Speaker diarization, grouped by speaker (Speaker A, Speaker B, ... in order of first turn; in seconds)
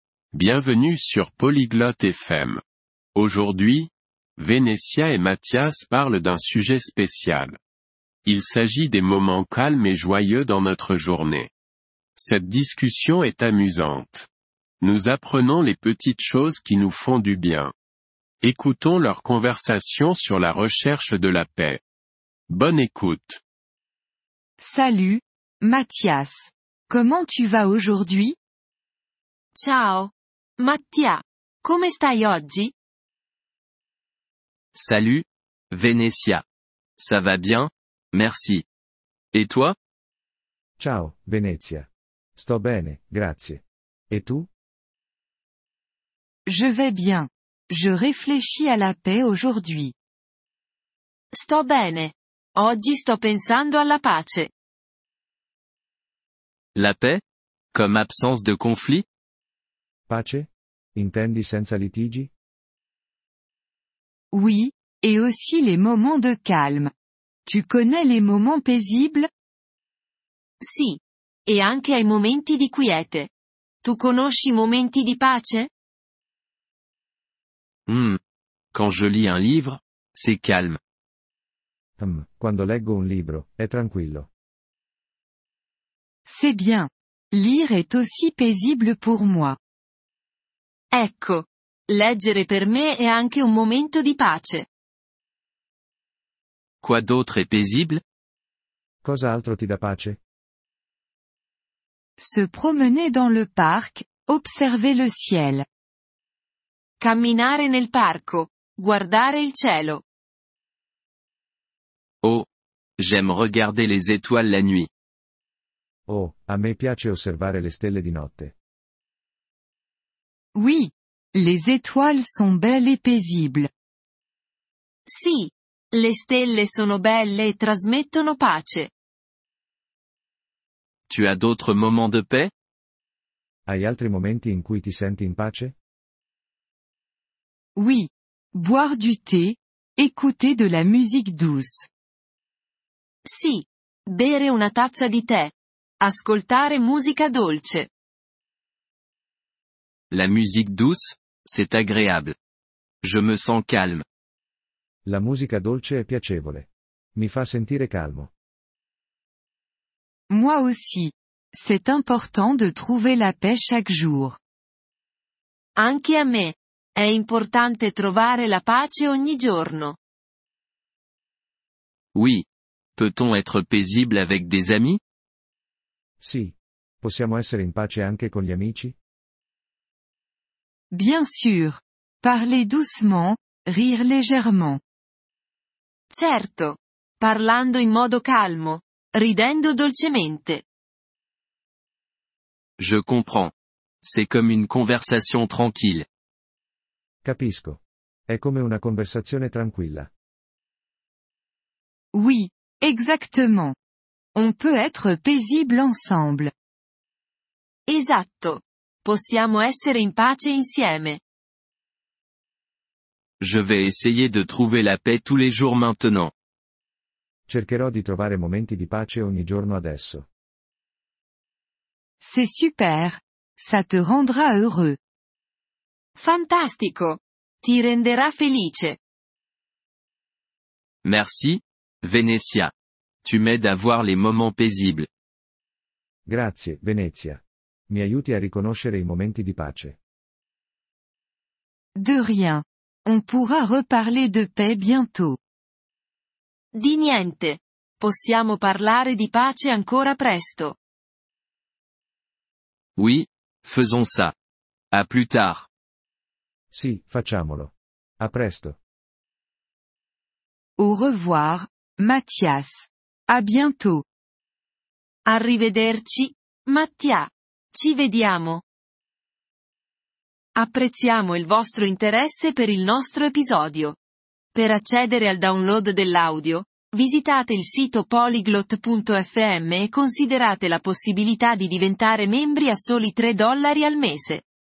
Speaker A: 0.3-2.6, 3.1-7.5, 8.2-11.5, 12.2-14.2, 14.8-17.7, 18.4-21.8, 22.5-23.3
Speaker B: 24.6-28.4, 46.5-49.9, 64.3-66.9, 67.5-69.3, 86.3-89.6, 102.2-105.7, 120.5-123.7, 137.8-141.9, 160.3-164.4, 180.9-184.8, 202.1-203.8, 204.3-206.5, 222.2-225.0, 241.9-245.4, 260.8-264.1
Speaker C: 29.6-32.7, 51.3-54.5, 70.6-73.3, 73.8-75.7, 90.9-94.7, 107.0-110.0, 125.1-128.9, 143.3-147.9, 165.8-170.0, 186.1-190.6, 207.9-211.2, 226.2-229.0, 246.7-250.8, 265.3-268.6, 270.6-274.0, 274.6-284.4
Speaker D: 34.8-36.4, 37.0-38.6, 39.3-39.8, 56.8-57.2, 57.7-59.0, 77.9-78.2, 78.7-80.8, 96.8-98.0, 113.0-114.9, 131.1-132.5, 150.1-152.3, 153.0-154.0, 172.2-172.5, 173.0-175.0, 192.8-196.1, 213.4-216.3, 231.0-232.7, 233.2-235.1, 253.0-254.3, 254.9-255.7
Speaker E: 40.8-44.5, 60.1-62.3, 82.0-84.3, 99.0-100.2, 116.1-118.5, 133.7-135.8, 155.1-158.3, 176.2-179.0, 197.2-200.1, 217.5-220.3, 236.3-240.0, 256.7-258.8